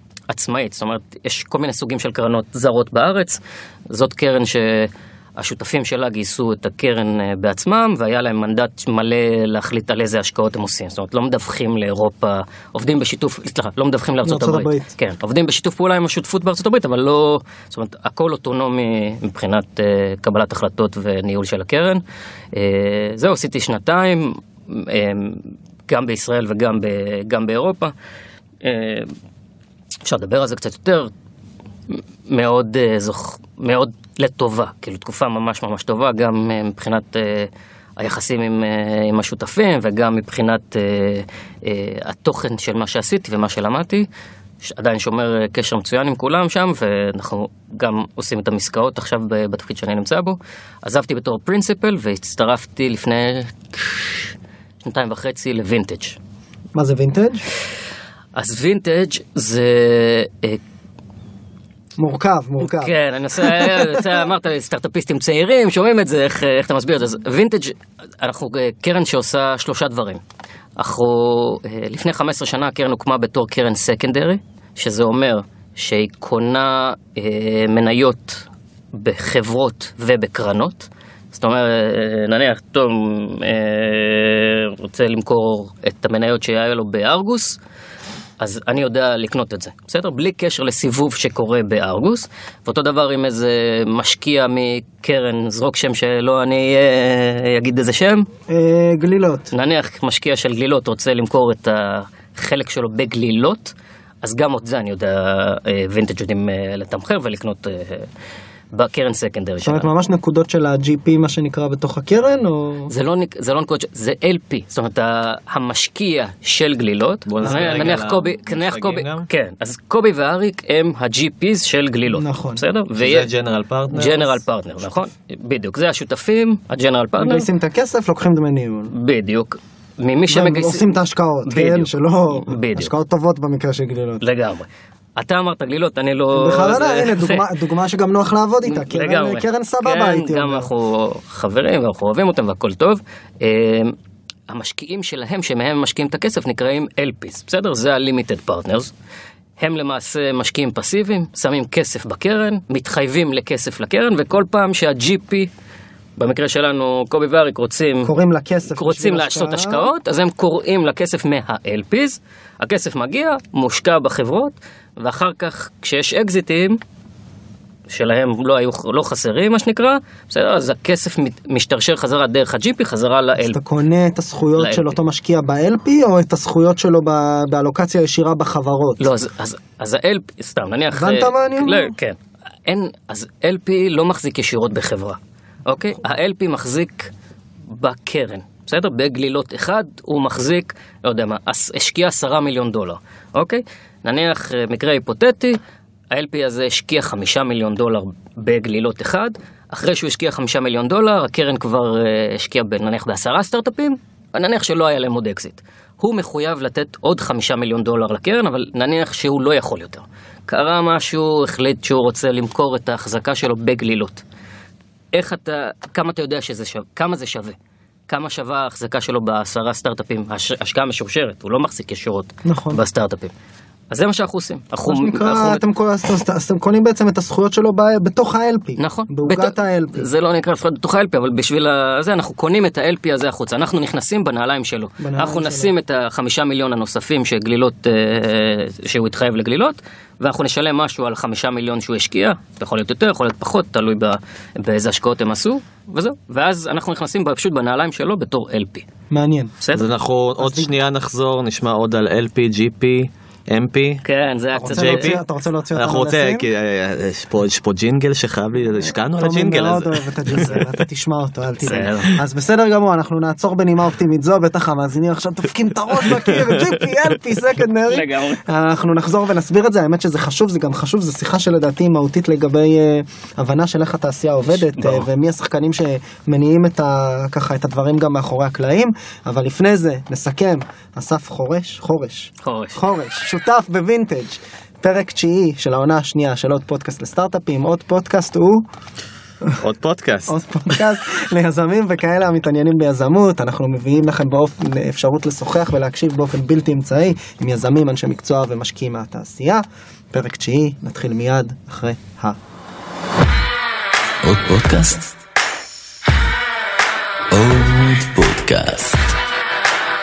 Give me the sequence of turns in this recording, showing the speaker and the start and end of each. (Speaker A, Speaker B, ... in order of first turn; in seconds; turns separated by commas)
Speaker A: 0.3-22.0, Speaker B: 14.2-14.9, Speaker A: 22.5-27.9, Speaker A: 28.6-29.1, Speaker A: 30.0-31.1, Speaker A: 31.9-44.1, Speaker A: 44.6-56.2, Speaker B: 56.7-57.4, Speaker A: 58.3-60.6, Speaker B: 62.0-64.1, Speaker A: 62.6-70.2, Speaker A: 70.8-87.6, Speaker A: 88.4-98.3, Speaker B: 98.5-99.5, Speaker A: 99.5-108.1, Speaker A: 108.7-109.9, Speaker B: 109.6-112.9, Speaker A: 112.9-123.3, Speaker C: 117.2-119.3, Speaker B: 117.4-118.0, Speaker B: 122.1-122.6, Speaker C: 123.0-124.3, Speaker A: 123.9-127.5, Speaker B: 127.2-128.9, Speaker A: 128.9-130.8, Speaker B: 130.3-134.2, Speaker A: 131.4-132.9, Speaker A: 134.2-137.5, Speaker B: 136.3-140.7, Speaker A: 138.7-143.9, Speaker A: 144.5-148.9, Speaker A: 149.6-155.5, Speaker A: 156.2-158.1, Speaker B: 158.0-159.9, Speaker A: 158.7-166.8, Speaker A: 167.9-173.6, Speaker B: 173.4-179.1, Speaker A: 174.6-174.9, Speaker A: 179.0-187.1, Speaker B: 180.9-181.9, Speaker A: 187.7-195.6, Speaker A: 196.1-214.2, Speaker A: 215.1-217.6, Speaker A: 218.1-223.3, Speaker B: 222.4-222.8, Speaker A: 223.9-225.6, Speaker B: 224.8-230.1, Speaker A: 228.8-248.9, Speaker B: 235.0-235.7, Speaker B: 249.1-249.6, Speaker A: 249.6-249.8, Speaker C: 249.7-254.0, Speaker B: 250.4-250.7, Speaker A: 254.0-255.2, Speaker B: 254.6-256.4, Speaker C: 254.7-255.2, Speaker C: 255.7-260.6, Speaker B: 259.1-288.6, Speaker A: 261.6-262.2, Speaker A: 267.9-268.4, Speaker A: 274.6-275.1, Speaker A: 282.4-282.8, Speaker C: 289.6-290.8, Speaker B: 290.3-302.4, Speaker C: 304.2-305.0, Speaker C: 307.3-309.0